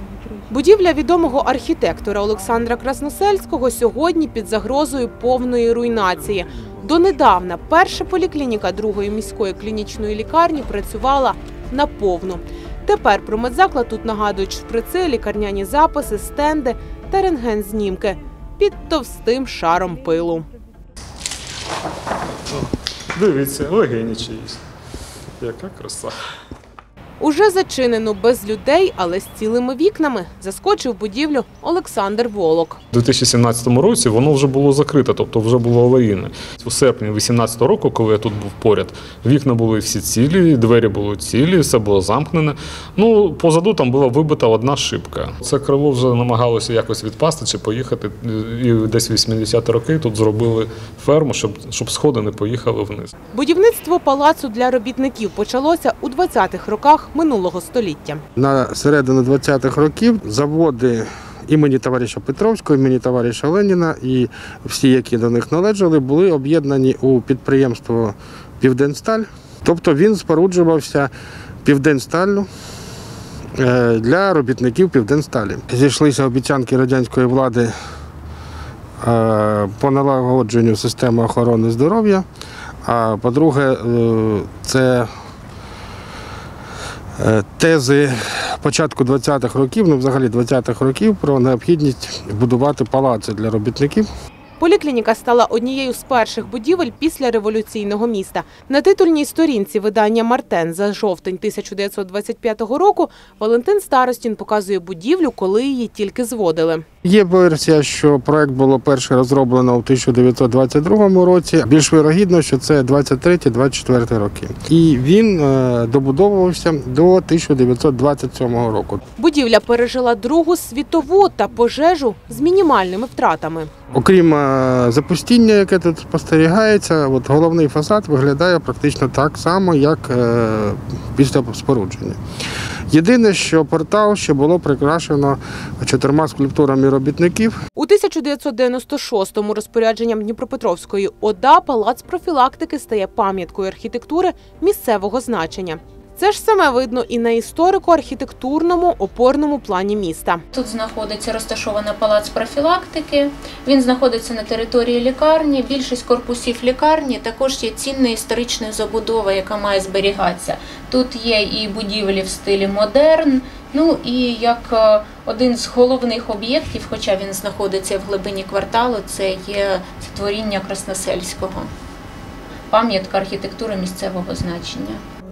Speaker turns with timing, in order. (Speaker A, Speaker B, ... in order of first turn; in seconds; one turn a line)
Speaker A: 0.5-20.5
Speaker B: 22.5-24.6
Speaker B: 25.4-26.1
Speaker A: 27.2-32.8
Speaker B: 32.9-53.1
Speaker A: 53.3-58.2
Speaker C: 58.4-71.1
Speaker C: 71.6-72.5
Speaker C: 73.6-77.7
Speaker C: 79.0-82.2
Speaker C: 82.8-85.1
Speaker C: 87.2-94.1
Speaker A: 94.6-106.8
Speaker C: 107.0-119.0
Speaker A: 119.2-123.7
Speaker C: 123.9-132.2
Speaker C: 132.9-137.5
Speaker A: 137.8-150.4
Speaker D: 150.5-171.7
Speaker D: 172.7-175.0